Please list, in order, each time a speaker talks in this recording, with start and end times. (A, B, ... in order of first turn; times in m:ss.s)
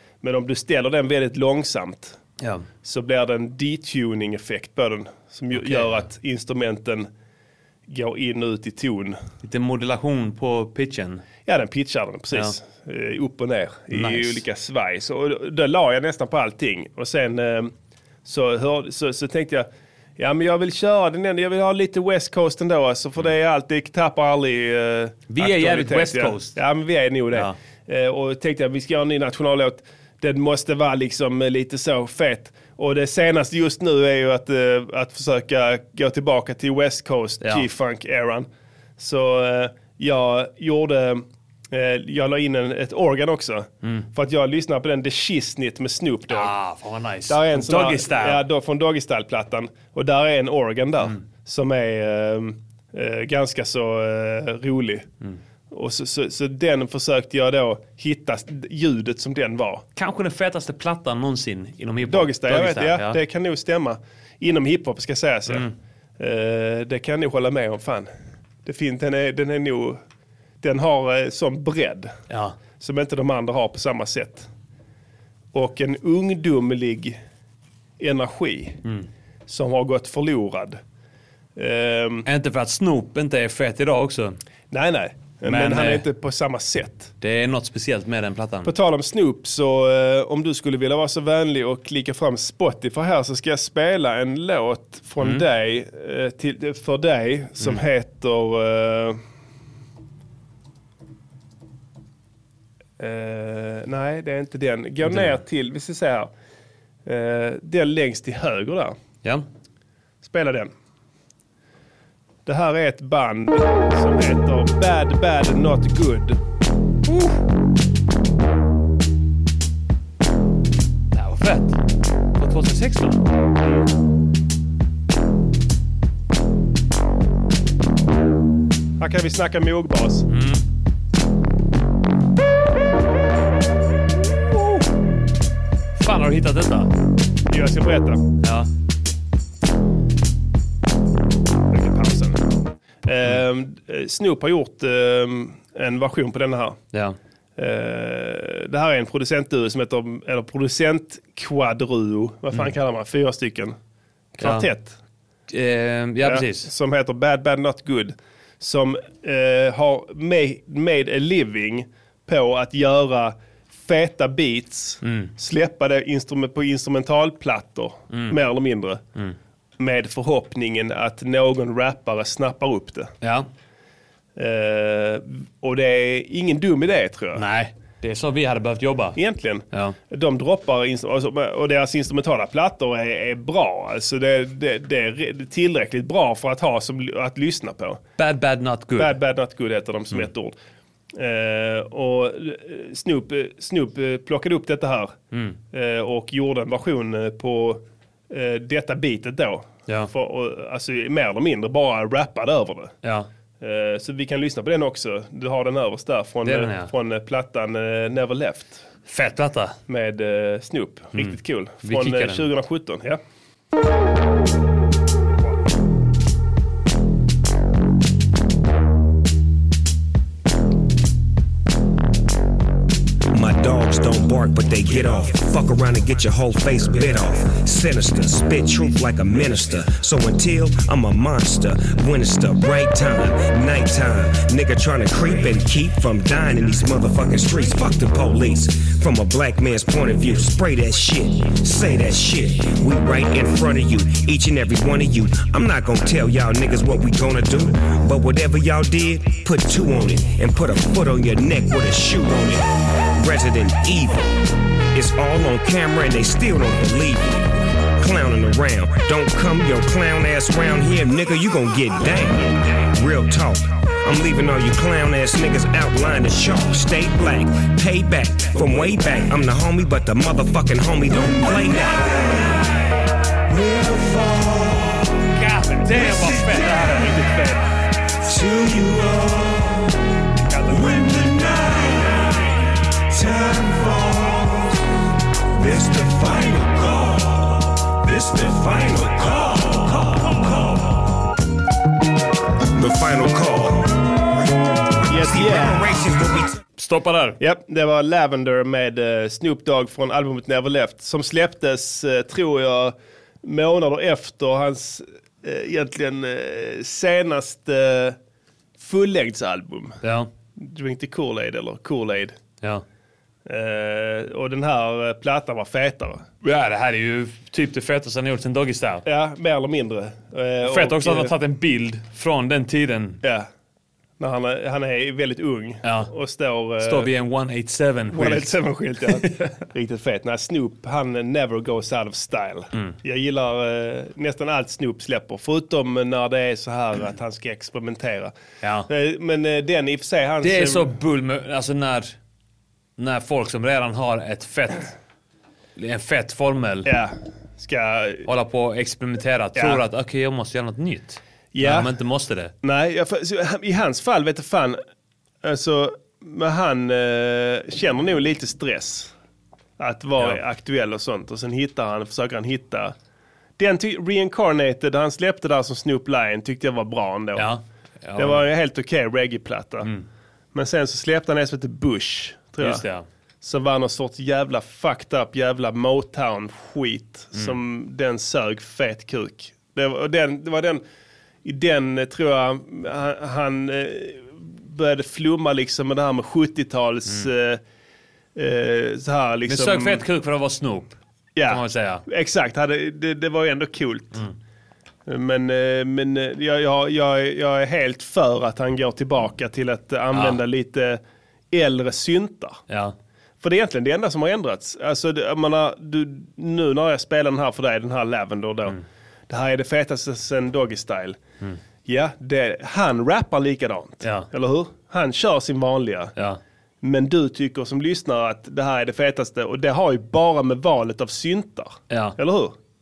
0:00.2-0:02.2 A
0:02.4-0:02.7 B
0:02.8-0:07.1 A
0:05.5-0:06.0 B
0:07.9-0:09.2 A
0:09.4-0:11.2 B
0:11.4-0:17.7 A
0:13.9-0:14.4 B
0:18.2-0:46.5 A
0:25.3-0:26.6 B
0:37.4-0:37.7 B
0:46.3-0:48.4 B
0:47.3-0:55.1 A
0:55.7-0:59.8 A
1:00.0-1:03.2 B
1:02.0-1:05.7 A
1:05.5-1:05.7 B
1:06.2-1:08.1 A
1:08.6-1:10.0 A
1:10.6-1:12.1 A
1:12.3-1:12.6 B
1:12.8-1:14.5 A
1:15.5-1:17.2 A
1:18.0-1:18.8 A
1:18.8-1:19.1 B
1:19.5-1:20.8 A
1:21.6-1:22.3 A
1:22.2-1:24.4 B
1:24.7-1:27.1 A
1:25.4-1:26.0 B
1:27.2-1:28.7 B
1:28.6-1:39.2 A
1:43.0-1:46.3 A
1:45.0-1:45.4 B
1:47.0-1:49.0 A
1:50.2-1:50.7 A
1:52.4-1:56.4 A
2:01.1-2:01.8 B
2:02.4-2:03.3 B
2:09.0-2:10.3 A
2:10.3-2:10.6 B
2:16.0-2:16.9 B
2:17.5-2:18.2 A
2:18.4-2:18.7 B
2:21.7-2:22.5 A
2:23.0-2:26.8 A
2:27.6-2:33.8 A
2:34.4-2:35.0 A
2:34.4-2:34.7 B
2:35.5-2:36.7 B
2:36.2-2:49.0 A
2:45.0-2:45.3 B
2:48.1-2:48.4 B
2:49.8-2:53.1 A
2:53.2-2:53.5 B
2:54.4-2:57.4 A
2:57.4-2:59.2 B
2:59.2-3:08.0 A
3:08.2-3:09.2 B
3:09.0-3:10.6 A
3:11.1-3:15.1 A
3:15.3-3:15.6 B
3:15.7-3:22.9 A
3:23.0-3:23.3 B
3:23.6-3:28.8 A
3:26.4-3:26.9 B
3:29.0-3:29.8 B
3:29.9-3:33.2 A
3:31.1-3:32.5 B
3:43.3-4:14.4 C
4:14.9-4:32.6 C
4:33.5-4:35.3 C
4:35.4-4:37.2 B
4:35.9-4:37.6 A
4:36.1-4:36.6 C
4:38.2-4:40.0 C
4:40.5-4:40.8 A
4:40.6-4:44.9 C
4:45.5-4:51.0 C
4:52.7-4:54.0 C
4:55.0-4:56.6 C
4:55.1-4:56.0 A
4:56.8-4:57.4 B
4:57.4-5:08.2 A
5:08.8-5:10.0 A
5:10.0-5:10.3 B
5:10.6-5:12.4 A
5:13.5-5:16.3 A
5:16.4-5:19.0 B
5:19.0-5:21.4 A
5:20.6-5:23.2 B
5:23.2-5:23.5 A
5:24.2-5:27.1 A
5:25.8-5:26.1 B
5:26.8-5:29.3 B
5:28.1-5:38.3 A
5:38.6-5:38.9 B
5:38.9-5:41.0 A
5:40.4-5:42.2 B
5:43.0-5:44.9 B
5:45.8-5:46.9 B
5:46.8-5:48.3 A
5:48.2-5:52.5 B
5:49.6-5:49.8 A
5:51.5-5:51.9 A
5:52.6-5:54.8 A
5:55.4-5:59.1 A
5:59.8-6:03.0 A
6:03.6-6:07.5 A
6:07.4-6:08.4 B
6:08.2-6:09.9 A
6:10.5-6:12.8 A
6:12.6-6:13.0 B
6:13.4-6:20.8 A
6:21.4-6:27.6 A
6:28.4-6:30.0 A
6:29.5-6:31.0 B
6:31.4-6:34.2 A
6:31.5-6:32.0 B
6:35.0-6:41.0 A
6:40.1-6:40.4 B
6:41.5-6:42.6 A
6:42.7-6:43.0 B
6:43.4-6:51.2 A
6:51.8-6:56.1 A
6:54.0-6:54.3 B
6:56.2-6:56.4 B
6:56.8-7:02.6 A
7:01.9-7:02.2 B